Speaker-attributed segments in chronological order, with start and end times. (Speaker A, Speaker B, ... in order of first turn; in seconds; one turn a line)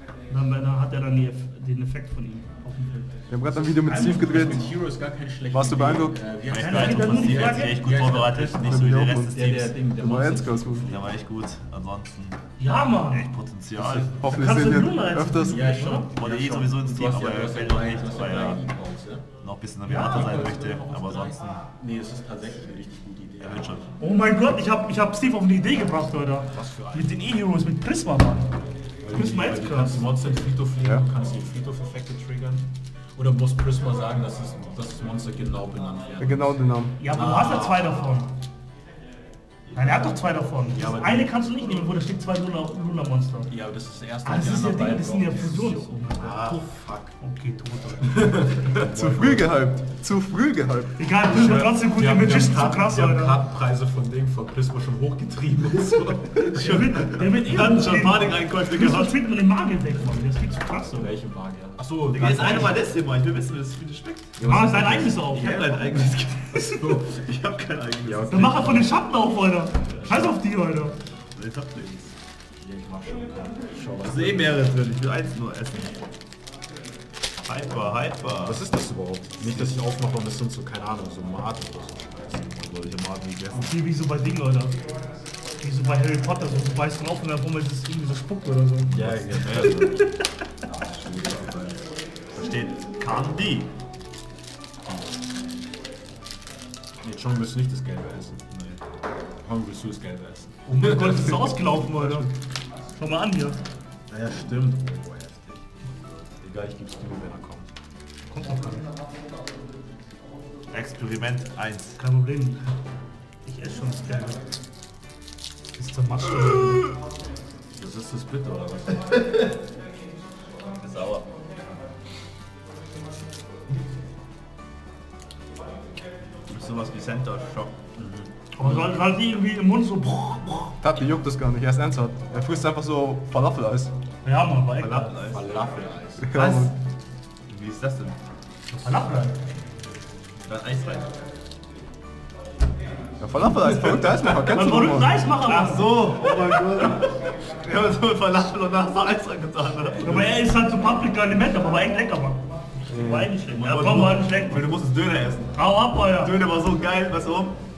Speaker A: 0.3-3.1
Speaker B: 3.3-4.6
Speaker C: 3.4-11.0
Speaker A: 3.9-4.7
Speaker B: 5.5-6.2
Speaker D: 6.4-9.8
Speaker A: 6.6-7.8
Speaker B: 8.6-9.3
Speaker B: 9.9-10.9
Speaker D: 10.8-12.4
Speaker A: 12.6-13.3
Speaker D: 13.1-14.1
Speaker B: 13.8-15.7
Speaker A: 14.2-16.1
Speaker C: 15.4-19.3
Speaker D: 15.9-18.6
Speaker D: 19.4-21.6
Speaker A: 19.9-20.3
Speaker C: 19.9-23.9
Speaker D: 23.4-23.9
Speaker A: 24.0-28.5
Speaker C: 26.5-27.3
Speaker C: 29.0-38.0
Speaker A: 29.1-30.0
Speaker B: 36.2-36.9
Speaker A: 37.0-38.3
Speaker D: 39.6-40.1
Speaker A: 39.7-43.5
Speaker C: 40.7-41.4
Speaker C: 43.5-47.2
Speaker A: 44.2-48.6
Speaker C: 48.0-49.5
Speaker B: 48.8-51.7
Speaker A: 51.0-53.4
Speaker C: 51.8-57.2
Speaker D: 56.5-59.2
Speaker A: 56.5-61.1
Speaker C: 61.0-62.8
Speaker D: 62.1-64.4
Speaker C: 64.4-65.5
Speaker A: 64.4-66.9
Speaker D: 65.2-68.9
Speaker C: 66.7-67.0
Speaker C: 68.0-68.9
Speaker A: 68.3-71.0
Speaker D: 69.9-70.3
Speaker D: 71.3-72.1
Speaker C: 72.6-74.7
Speaker D: 74.0-76.1
Speaker D: 77.4-78.6
Speaker C: 78.3-83.8
Speaker D: 79.4-79.7
Speaker A: 83.5-84.8
Speaker A: 85.6-88.9
Speaker D: 88.9-89.9
Speaker C: 88.9-90.0
Speaker D: 91.0-91.8
Speaker C: 91.0-91.6
Speaker D: 92.3-93.7
Speaker C: 94.8-95.2
Speaker C: 97.0-98.4
Speaker D: 98.5-98.8
Speaker C: 99.4-101.2
Speaker A: 100.7-102.3
Speaker A: 103.0-103.6
Speaker C: 104.1-107.7
Speaker A: 108.3-108.8
Speaker D: 110.7-112.0
Speaker A: 112.0-112.6
Speaker A: 113.4-114.4
Speaker A: 115.7-117.0
Speaker C: 117.8-119.1
Speaker D: 120.8-121.3
Speaker D: 126.5-127.8
Speaker C: 128.0-128.8
Speaker A: 128.6-130.7
Speaker B: 130.8-133.9
Speaker A: 134.2-135.1
Speaker D: 134.8-135.5
Speaker C: 134.8-136.3
Speaker B: 136.2-136.7
Speaker D: 136.3-136.7
Speaker D: 137.5-138.2
Speaker C: 138.7-139.2
Speaker A: 138.8-139.3
Speaker D: 140.4-141.1
Speaker B: 143.2-145.2
Speaker D: 144.0-144.4
Speaker A: 144.4-146.1
Speaker D: 145.4-150.3
Speaker A: 150.0-154.7
Speaker B: 152.9-153.3
Speaker D: 153.5-155.6
Speaker A: 155.5-156.3
Speaker D: 156.2-157.6